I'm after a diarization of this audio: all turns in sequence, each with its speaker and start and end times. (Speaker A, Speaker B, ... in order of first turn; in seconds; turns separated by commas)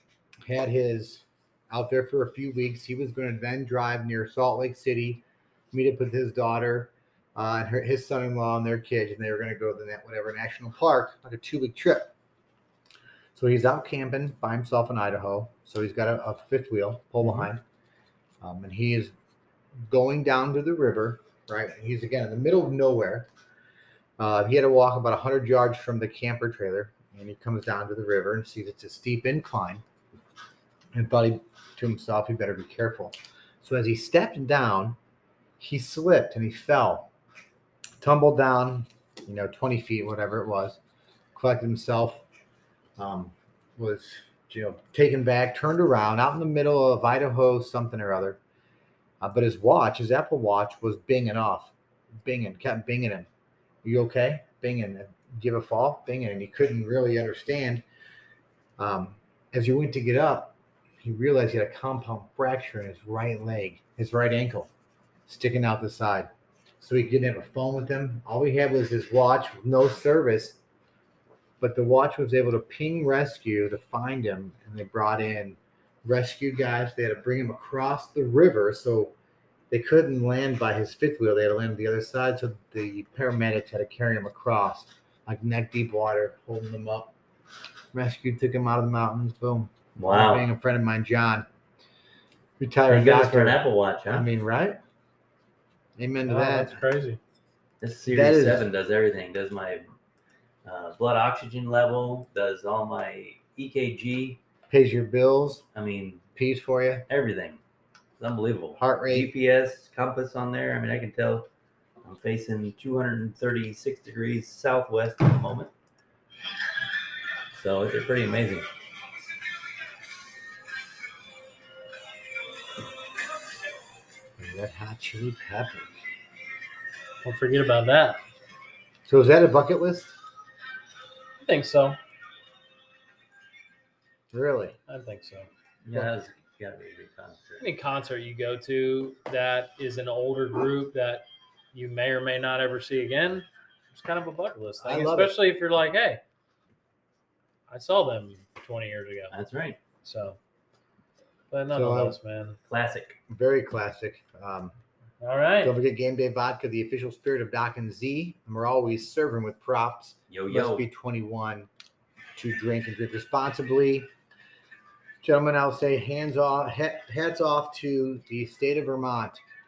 Speaker A: 0.5-12.1, Speaker A: 13.3-17.6, Speaker B: 17.2-17.5, Speaker A: 18.4-19.1, Speaker A: 19.9-23.3, Speaker A: 24.2-29.8, Speaker A: 30.9-35.0, Speaker A: 35.6-37.1, Speaker A: 38.0-40.8, Speaker A: 41.3-42.2, Speaker A: 43.0-48.4, Speaker A: 49.2-53.3, Speaker A: 53.8-57.9, Speaker A: 58.8-64.7, Speaker A: 65.3-70.6, Speaker A: 71.6-79.1, Speaker A: 79.7-87.1, Speaker A: 87.9-91.5, Speaker B: 90.0-90.5, Speaker A: 92.6-94.8, Speaker B: 92.9-94.3, Speaker A: 96.0-96.8, Speaker C: 96.3-97.2, Speaker B: 97.8-99.9, Speaker A: 98.1-98.7, Speaker B: 100.7-104.4, Speaker A: 104.7-105.7, Speaker B: 105.8-106.2, Speaker A: 106.4-107.1, Speaker B: 107.1-107.6, Speaker B: 108.2-111.5, Speaker A: 108.8-109.3, Speaker B: 112.0-115.7, Speaker B: 117.5-118.7, Speaker A: 124.4-126.0, Speaker C: 127.2-128.2, Speaker A: 129.1-130.2, Speaker C: 131.4-132.0, Speaker A: 134.3-134.8, Speaker C: 134.9-135.5, Speaker B: 135.8-137.7, Speaker C: 137.6-146.2, Speaker A: 144.8-145.4, Speaker C: 147.7-149.3, Speaker B: 149.3-149.8, Speaker C: 150.0-150.4, Speaker C: 151.5-152.6, Speaker A: 151.7-152.2, Speaker B: 152.7-153.2, Speaker A: 153.3-154.7, Speaker C: 155.2-155.8, Speaker A: 155.6-161.7, Speaker B: 160.3-160.9, Speaker A: 162.4-164.1, Speaker A: 165.2-169.4